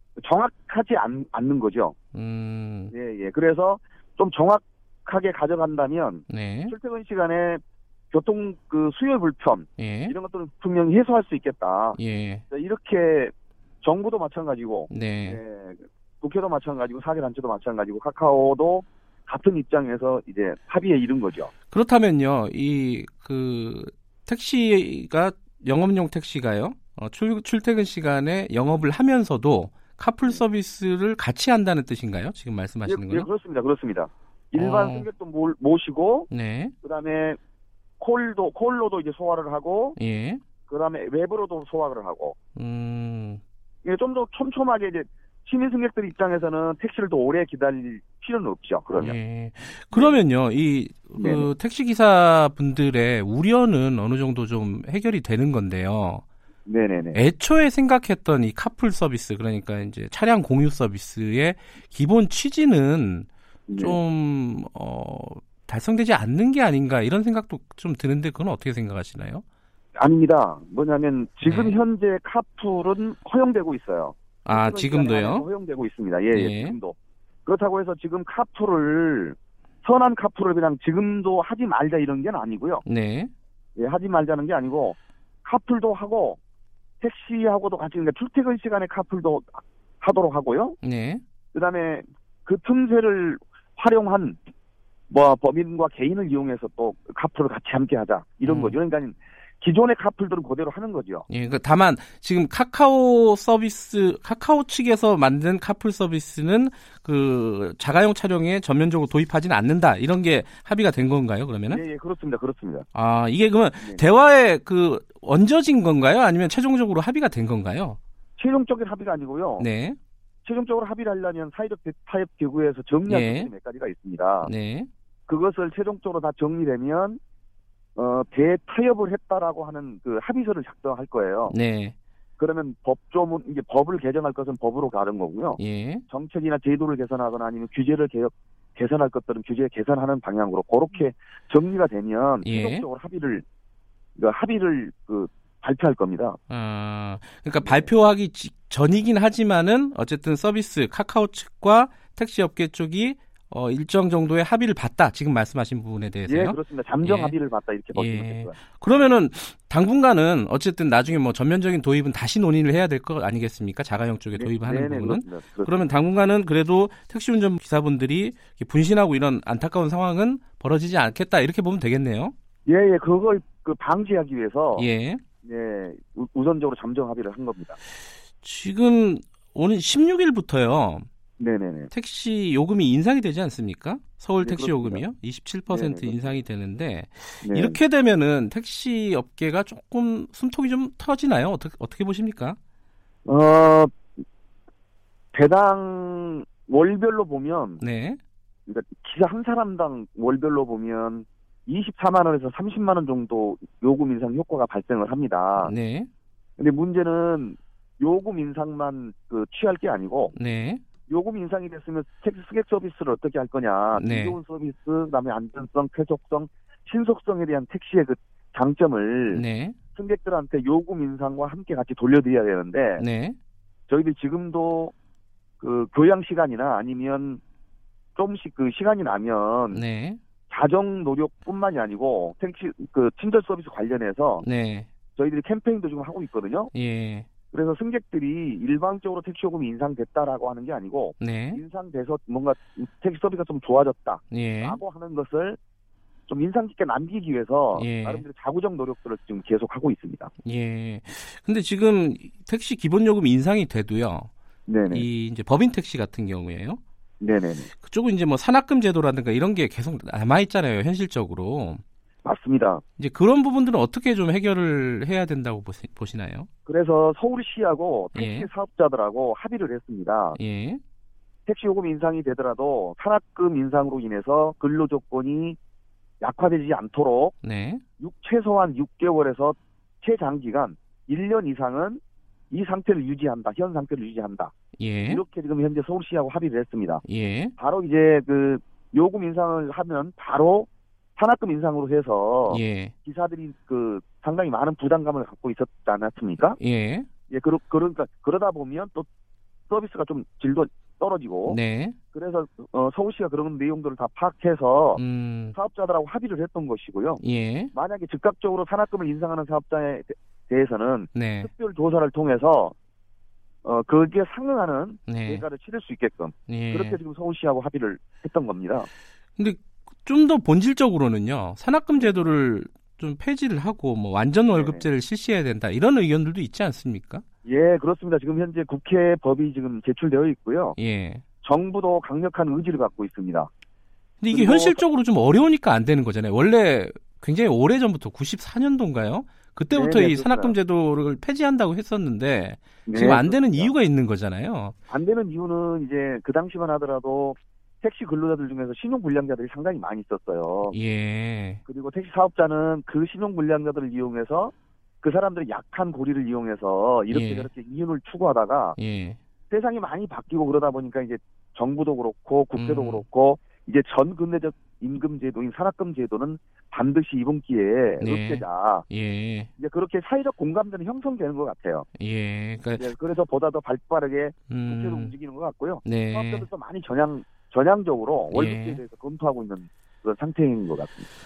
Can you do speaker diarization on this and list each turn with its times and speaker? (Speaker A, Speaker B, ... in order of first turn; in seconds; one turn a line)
Speaker A: 0.2-1.9
Speaker B: 2.1-2.9
Speaker A: 2.9-12.0
Speaker B: 6.3-6.7
Speaker B: 9.8-10.1
Speaker B: 11.9-12.4
Speaker A: 12.5-21.5
Speaker B: 14.9-15.4
Speaker B: 21.7-33.3
Speaker A: 32.9-36.3
Speaker B: 34.5-35.1
Speaker B: 36.3-36.7
Speaker A: 36.8-37.4
Speaker A: 38.0-40.0
Speaker B: 40.0-40.4
Speaker A: 40.7-42.4
Speaker B: 42.5-43.4
Speaker A: 43.8-49.2
Speaker B: 49.0-56.2
Speaker A: 49.9-50.2
Speaker A: 51.1-51.5
Speaker A: 56.6-57.2
Speaker B: 57.1-69.4
Speaker A: 63.7-64.0
Speaker A: 70.0-82.8
Speaker B: 71.4-71.8
Speaker B: 74.4-75.5
Speaker B: 76.3-76.8
Speaker B: 82.8-83.3
Speaker A: 83.8-86.4
Speaker A: 87.0-90.8
Speaker B: 90.8-91.2
Speaker A: 91.5-94.4
Speaker A: 95.1-101.3
Speaker B: 98.4-98.8
Speaker B: 101.3-111.8
Speaker A: 111.7-112.9
Speaker B: 112.9-118.0
Speaker A: 118.4-119.7
Speaker B: 119.6-120.0
Speaker A: 120.4-124.5
Speaker B: 123.1-123.5
Speaker B: 124.4-124.9
Speaker A: 125.3-127.2
Speaker A: 128.0-131.6
Speaker B: 131.5-131.9
Speaker A: 132.4-143.4
Speaker B: 135.6-136.0
Speaker B: 142.4-142.8
Speaker A: 144.2-146.4
Speaker B: 146.5-157.3
Speaker A: 147.6-147.9
Speaker A: 156.3-159.1
Speaker B: 157.9-172.3
Speaker A: 164.3-165.8
Speaker A: 172.7-174.9
Speaker B: 174.8-175.2
Speaker A: 175.4-177.8
Speaker B: 178.4-181.1
Speaker A: 181.4-181.9
Speaker B: 181.9-192.6
Speaker A: 184.4-185.0
Speaker A: 185.7-186.4
Speaker A: 187.4-187.8
Speaker A: 193.2-193.9
Speaker A: 195.3-197.8
Speaker B: 197.8-198.2
Speaker A: 198.7-205.7
Speaker B: 205.6-206.1
Speaker A: 206.6-210.3
Speaker B: 210.3-210.8
Speaker A: 211.1-219.4
Speaker B: 213.9-214.4
Speaker B: 219.3-219.8
Speaker A: 219.9-223.0
Speaker B: 223.0-223.4
Speaker A: 223.9-224.9
Speaker A: 225.6-227.4
Speaker A: 228.1-229.8
Speaker B: 229.7-230.2
Speaker A: 230.5-234.4
Speaker B: 234.4-234.9
Speaker A: 235.1-236.7
Speaker B: 236.7-237.3
Speaker A: 237.5-245.6
Speaker B: 241.2-241.6
Speaker B: 244.3-244.8
Speaker A: 246.3-250.3
Speaker B: 247.7-248.2
Speaker B: 250.4-254.3
Speaker A: 254.7-255.1
Speaker B: 254.9-256.8
Speaker A: 257.2-257.7
Speaker B: 257.8-261.8
Speaker A: 262.2-262.8
Speaker B: 263.0-266.5
Speaker A: 266.6-270.4
Speaker B: 268.1-268.5
Speaker B: 270.3-270.8
Speaker A: 271.4-275.6
Speaker A: 276.2-277.3
Speaker B: 277.4-277.8
Speaker A: 278.0-287.0
Speaker B: 284.8-285.2
Speaker B: 287.0-287.5
Speaker A: 287.6-296.6
Speaker B: 292.5-292.9
Speaker B: 296.6-297.1
Speaker A: 297.3-299.1
Speaker A: 299.7-301.6
Speaker B: 301.4-302.0
Speaker A: 302.1-312.7
Speaker B: 304.9-305.5
Speaker B: 307.2-307.7
Speaker B: 311.1-311.5
Speaker A: 313.6-318.9
Speaker B: 315.1-315.4
Speaker B: 316.5-317.0
Speaker B: 319.4-327.2
Speaker A: 324.5-324.9
Speaker A: 327.4-330.8
Speaker B: 330.8-331.2
Speaker A: 331.4-333.5
Speaker B: 334.2-344.7
Speaker A: 334.3-334.8
Speaker A: 339.7-340.6
Speaker A: 342.9-343.7
Speaker A: 344.9-350.8
Speaker B: 350.7-351.6
Speaker A: 351.6-358.8
Speaker B: 357.1-357.5
Speaker B: 358.8-359.2
Speaker A: 359.5-368.9
Speaker B: 362.5-363.0
Speaker B: 368.0-369.5
Speaker A: 369.6-371.9
Speaker B: 372.0-372.9
Speaker A: 372.8-381.1
Speaker B: 374.5-375.1
Speaker B: 375.8-376.5
Speaker B: 378.3-378.8